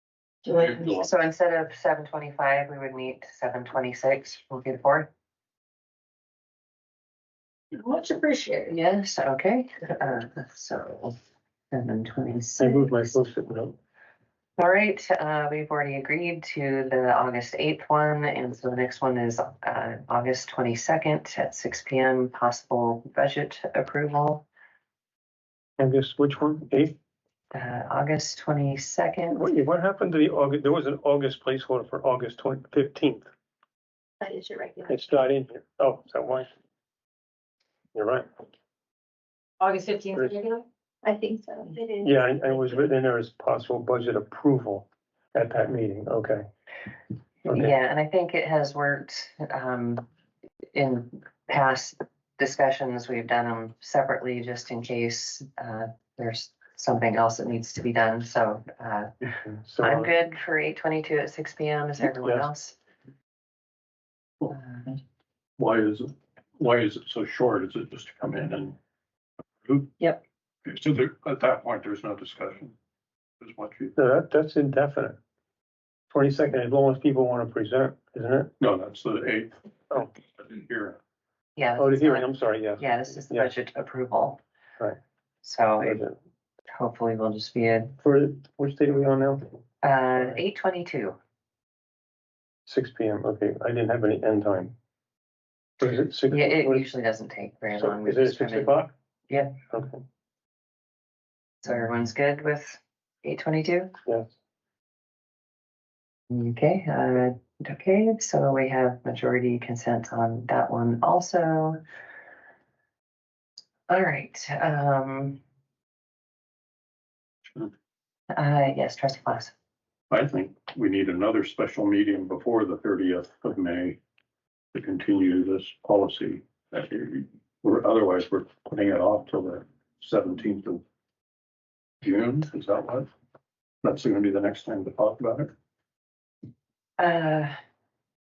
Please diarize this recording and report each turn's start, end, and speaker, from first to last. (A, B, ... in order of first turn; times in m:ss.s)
0:00.4-0:01.0 A
0:00.5-0:01.0 B
0:01.0-0:05.1 C
0:07.7-0:08.7 A
0:08.7-0:11.2 C
0:11.7-0:13.2 C
0:12.6-0:13.8 D
0:14.6-0:24.4 C
0:25.8-0:26.9 D
0:27.5-0:29.5 C
0:29.3-0:33.3 D
0:34.2-0:34.9 E
0:34.9-0:36.5 D
0:37.9-0:38.3 D
0:39.6-0:40.4 A
0:40.6-0:42.1 E
0:42.0-0:46.5 D
0:47.4-0:47.8 D
0:47.5-0:50.0 C
0:50.7-0:59.1 C
0:59.2-1:00.1 D
0:59.8-1:02.8 C
1:02.0-1:02.5 D
1:04.5-1:04.9 C
1:05.6-1:08.8 B
1:09.6-1:09.9 B
1:10.6-1:12.7 B
1:13.4-1:14.0 B
1:14.0-1:15.2 D
1:16.1-1:18.5 D
1:18.6-1:21.0 B
1:21.6-1:24.4 C
1:21.8-1:23.5 D
1:25.4-1:26.0 C
1:25.8-1:26.2 D
1:26.7-1:27.9 C
1:28.0-1:29.6 D
1:29.8-1:31.2 C
1:32.7-1:34.7 D
1:35.8-1:36.8 D
1:36.3-1:38.7 C
1:37.8-1:38.9 D
1:39.3-1:39.5 C
1:39.7-1:40.0 D
1:41.6-1:43.9 C
1:46.3-1:51.8 C
1:53.9-1:55.4 C
1:58.3-1:59.5 C
2:00.1-2:04.0 B
2:04.7-2:10.8 B
2:12.0-2:13.1 B
2:13.8-2:15.5 B
2:17.0-2:17.5 C